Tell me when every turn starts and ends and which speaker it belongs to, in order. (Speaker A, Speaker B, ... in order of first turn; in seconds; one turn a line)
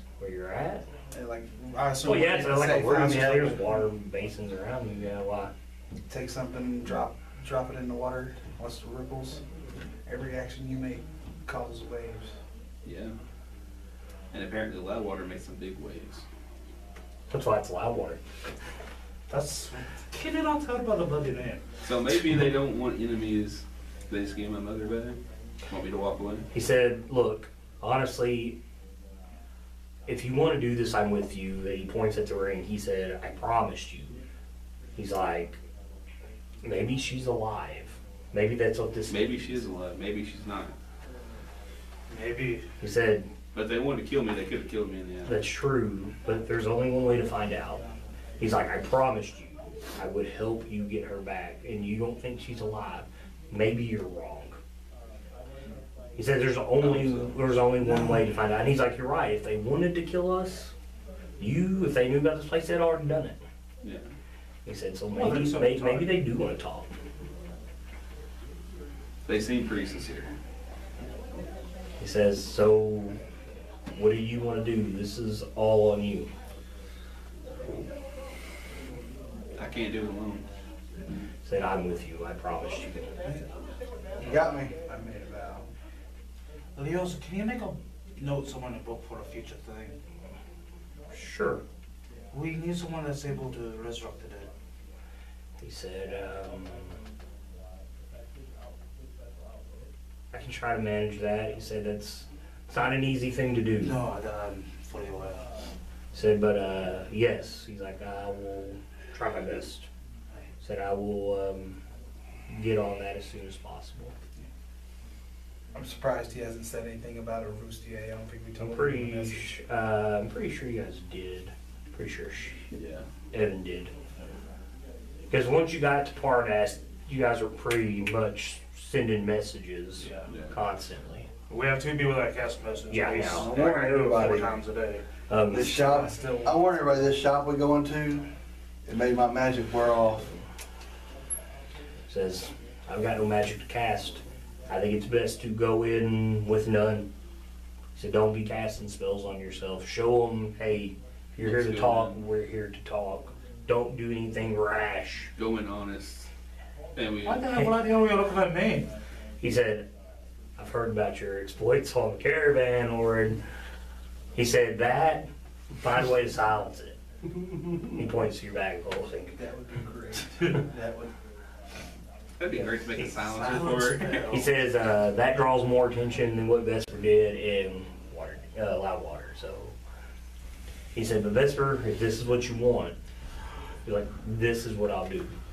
Speaker A: 0.2-0.9
Speaker B: 1.1-3.8
Speaker A: 2.0-5.5
Speaker B: 6.1-9.4
Speaker B: 10.1-12.4
Speaker C: 12.8-13.2
Speaker C: 14.3-16.2
Speaker A: 17.3-18.2
Speaker D: 19.3-21.6
Speaker C: 21.8-26.5
Speaker A: 26.5-28.6
Speaker A: 30.1-34.2
Speaker A: 34.9-35.6
Speaker A: 36.6-39.6
Speaker C: 39.1-40.7
Speaker D: 42.1-42.7
Speaker A: 42.8-43.3
Speaker C: 43.5-45.4
Speaker A: 45.3-47.8
Speaker A: 48.4-54.6
Speaker A: 56.1-60.7
Speaker C: 56.8-57.5
Speaker D: 57.9-58.2
Speaker A: 61.4-63.4
Speaker A: 64.6-66.9
Speaker D: 65.1-66.2
Speaker C: 69.3-70.3
Speaker A: 72.0-73.2
Speaker A: 73.9-76.3
Speaker C: 79.6-80.4
Speaker A: 81.4-83.1
Speaker E: 84.2-84.8
Speaker B: 84.2-85.7
Speaker D: 86.8-90.0
Speaker A: 91.1-91.6
Speaker D: 92.3-94.5
Speaker A: 95.6-97.0
Speaker A: 100.3-104.0
Speaker D: 103.8-105.5
Speaker A: 106.1-109.9
Speaker A: 110.6-111.8
Speaker A: 112.5-114.1
Speaker B: 115.7-119.5
Speaker A: 118.6-122.7
Speaker C: 122.7-123.0
Speaker A: 123.3-123.9
Speaker A: 125.3-131.3
Speaker D: 130.0-130.3
Speaker C: 130.3-130.6
Speaker D: 131.5-135.0
Speaker A: 132.9-134.6
Speaker E: 133.3-134.5
Speaker A: 135.3-135.8
Speaker E: 135.5-138.3
Speaker B: 135.6-136.8
Speaker E: 138.8-140.3
Speaker A: 142.1-147.1
Speaker A: 147.9-155.3
Speaker C: 151.4-152.2
Speaker C: 155.4-156.3
Speaker C: 156.9-157.5
Speaker D: 157.2-158.9
Speaker A: 159.4-159.9
Speaker A: 160.6-163.4
Speaker A: 164.3-165.3
Speaker A: 165.8-167.0
Speaker A: 167.9-169.4
Speaker E: 169.4-170.8
Speaker B: 169.5-171.1
Speaker C: 172.4-174.3
Speaker D: 173.3-174.5
Speaker B: 173.4-174.4
Speaker A: 174.3-179.7
Speaker A: 180.9-183.0
Speaker A: 183.8-185.4